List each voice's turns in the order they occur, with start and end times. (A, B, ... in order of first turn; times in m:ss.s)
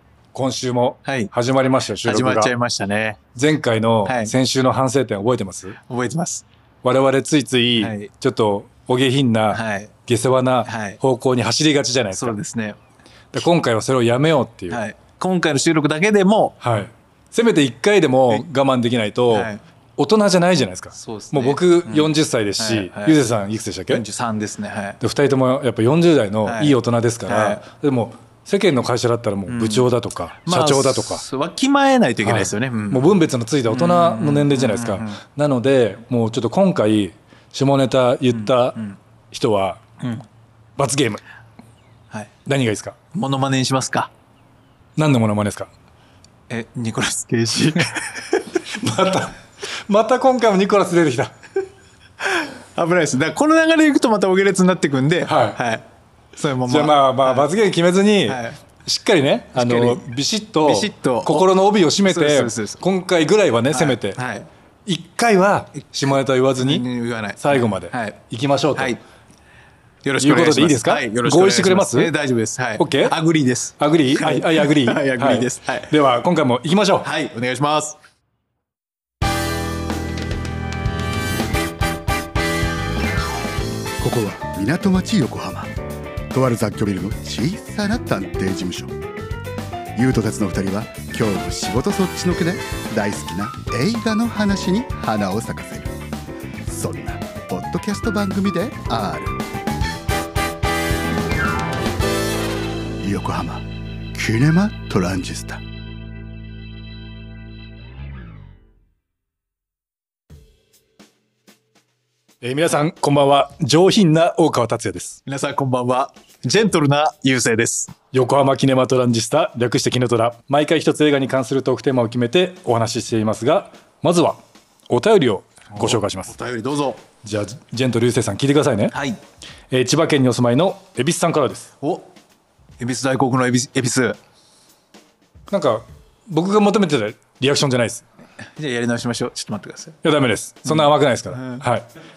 0:00.3-0:02.5 A
0:01.0-0:01.3 B
0:02.0-0:03.2 B
0:03.4-0:05.8 A
0:04.0-0:04.3 B
0:05.8-0:06.4 B
0:06.8-0:12.3 A
0:07.8-0:08.1 B
0:09.5-0:09.9 B
0:10.6-0:11.0 B
0:12.1-0:12.8 B
0:13.3-0:14.8 A
0:14.7-0:16.6 B
0:16.6-0:24.0 A
0:19.3-0:19.6 B
0:20.9-0:23.2 B
0:23.9-0:25.0 B
0:25.0-0:31.2 A
0:26.4-0:27.6 B
0:29.5-0:29.9 B
0:30.4-0:35.2 B
0:32.2-0:38.8 A
0:38.3-0:39.0 B
0:39.3-0:39.8 A
0:40.0-0:40.2 B
0:40.8-0:41.2 A
0:42.5-0:43.0 A
0:43.1-0:44.1 B
0:45.0-0:45.7 A
0:46.5-0:48.4 B
0:48.7-0:49.4 A
0:49.9-0:51.3 A
0:52.2-0:55.8 B
0:55.2-0:55.6 A
0:56.4-0:57.5 B
0:56.7-1:04.2 A
0:58.2-0:58.6 B
0:59.6-1:00.1 B
1:00.6-1:01.5 B
1:02.0-1:02.8 B
1:03.7-1:04.5 B
1:04.9-1:06.9 A
1:06.6-1:08.2 B
1:07.4-1:09.0 A
1:10.0-1:15.9 B
1:10.2-1:12.1 A
1:12.8-1:13.1 A
1:13.8-1:17.1 A
1:17.0-1:18.0 B
1:24.0-1:25.7 C
1:26.3-1:29.0 C
1:30.0-1:36.0 C
1:36.7-1:39.4 C
1:43.0-1:45.6 C
1:52.4-1:55.2 A
1:55.2-1:57.9 B
1:58.1-2:04.4 A
2:04.9-2:06.3 A
2:05.7-2:07.0 B
2:07.2-2:08.9 A
2:08.9-2:09.2 B
2:09.7-2:11.7 A
2:11.8-2:12.1 B
2:12.8-2:14.2 B
2:15.5-2:18.0 A
2:18.6-2:20.0 B
2:20.0-2:21.9 A
2:20.6-2:21.6 B